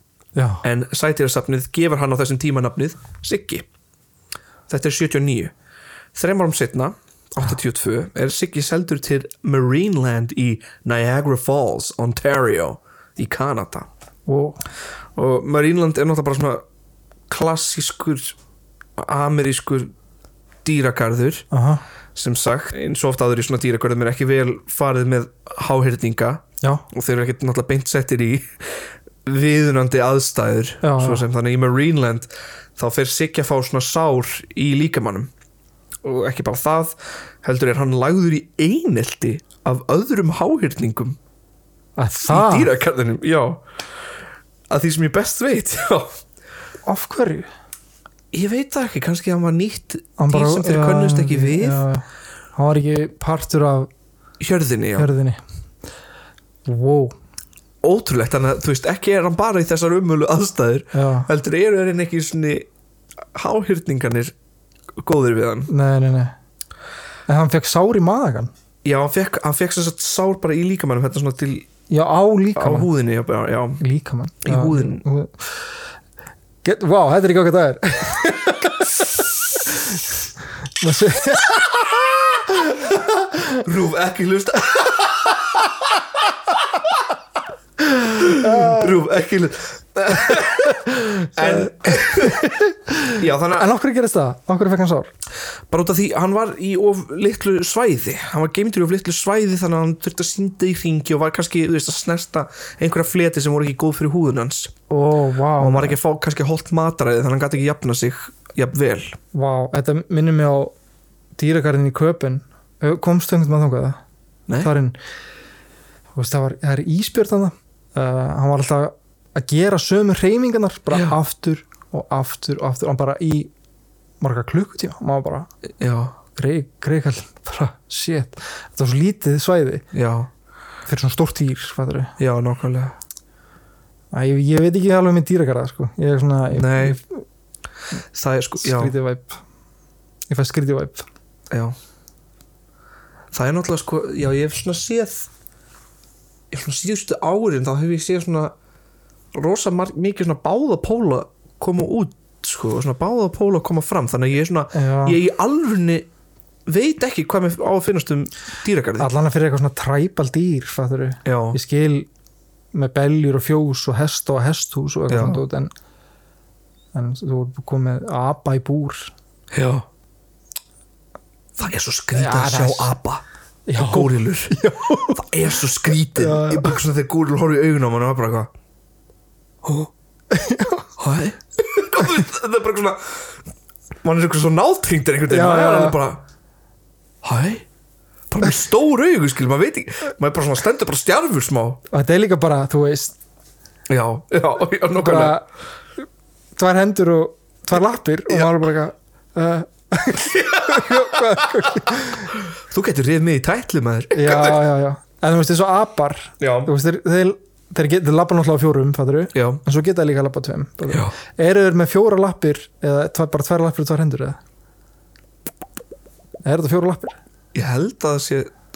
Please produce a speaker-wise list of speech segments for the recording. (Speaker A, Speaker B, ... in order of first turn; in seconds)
Speaker A: 0.3-0.7, 14.3-14.6, 21.5-21.8, 30.8-31.2, 42.0-42.7, 46.9-47.5, 50.2-52.0, 52.6-53.9, 54.9-55.4, 56.7-57.1, 60.9-61.3, 65.7-66.3, 67.3-68.5, 71.9-72.9, 73.8-75.5, 76.6-79.1, 79.7-80.1, 80.8-83.4, 88.2-89.0, 90.4-95.1, 104.9-106.0, 109.3-110.7, 111.4-114.0, 114.6-115.0, 116.2-123.5, 124.2-125.5, 126.3-129.9, 130.9-132.1, 134.1-137.2, 138.6-139.4, 140.3-141.1, 154.7-155.2, 159.0-162.1, 162.7-165.7, 166.9-169.1, 172.1-172.9, 173.7-175.3, 176.1-176.8, 180.3-180.9, 185.3-186.0, 191.9-193.2, 195.0-195.4, 196.6-202.3, 204.1-214.4, 216.4-217.2
Speaker B: 0.6-3.7, 4.7-5.5, 6.2-13.9, 15.2-16.6, 17.3-18.4, 19.0-19.9, 20.6-21.5, 22.1-35.3, 36.0-41.2, 42.2-43.6, 44.7-46.2, 48.3-51.8, 54.4-55.1, 57.8-62.7, 63.3-64.3, 65.0-65.7, 68.8-71.7, 72.6-73.8, 74.4-75.0, 83.6-85.7, 88.1-92.5, 93.1-93.7, 95.7-104.7, 105.6-109.2, 125.8-126.2, 129.9-130.3, 132.2-133.0, 136.5-137.0, 138.1-138.9, 141.5-141.8, 143.3-145.3, 146.5-148.5, 149.3-156.1, 156.7-159.1, 161.2-161.6, 165.1-165.4, 169.5-169.9, 171.6-173.2, 173.8-178.5, 179.6-179.9, 181.0-183.2, 184.0-186.2, 187.2-187.7, 188.3-191.8, 193.9-195.4, 200.3-201.6, 202.5-204.6, 206.4-206.7, 209.3-209.6, 217.5-218.5